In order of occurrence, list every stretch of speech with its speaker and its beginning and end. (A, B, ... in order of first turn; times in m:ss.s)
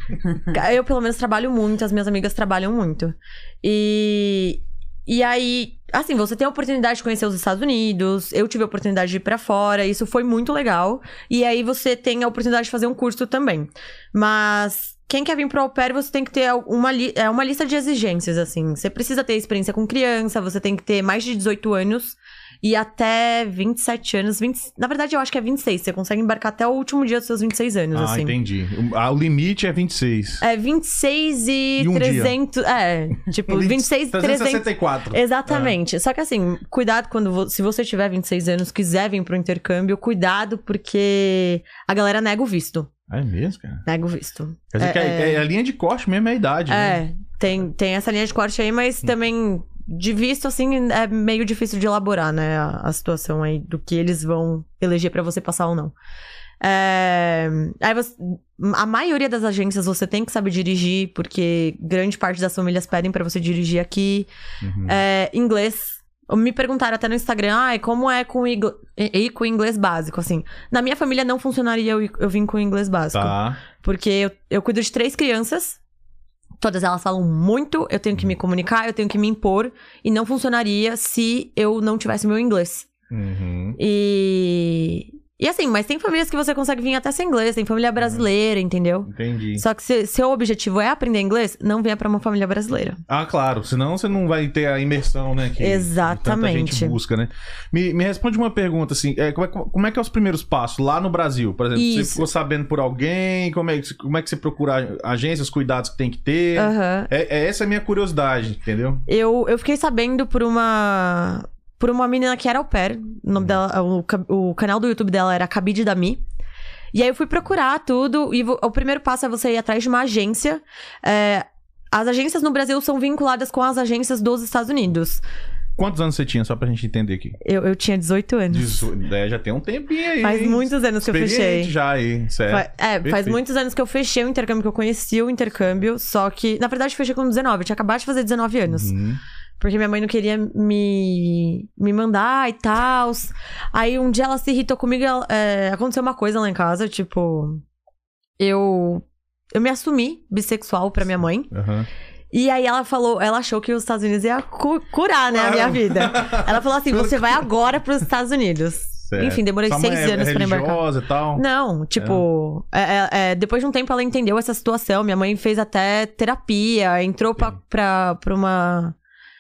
0:00.4-0:28.4 A
0:27.9-0:30.4 B
0:30.4-0:42.9 A
0:31.8-0:32.4 B
0:33.4-0:35.8 B
0:43.1-0:43.9 B
0:43.9-0:45.4 A
0:44.7-0:47.0 B
0:46.7-0:56.0 A
0:56.6-1:04.3 A
1:04.6-1:05.0 B
1:04.8-1:15.8 A
1:13.1-1:13.6 B
1:16.6-1:22.9 A
1:23.1-1:23.8 B
1:23.8-1:33.0 A
1:29.1-1:29.6 B
1:33.1-1:49.0 B
1:35.6-1:37.0 A
1:41.8-1:42.2 A
1:46.6-1:47.1 A
1:49.1-1:56.2 A
1:56.9-2:05.2 A
2:05.8-2:07.4 B
2:07.4-2:08.8 A
2:08.5-2:13.4 B
2:10.2-2:11.7 A
2:12.5-2:18.9 A
2:18.7-2:19.2 B
2:19.6-2:27.6 A
2:28.4-2:31.5 A
2:31.5-2:31.9 B
2:32.3-2:40.8 A
2:35.3-2:37.5 B
2:39.1-2:41.4 B
2:41.4-2:49.0 A
2:42.0-2:42.2 B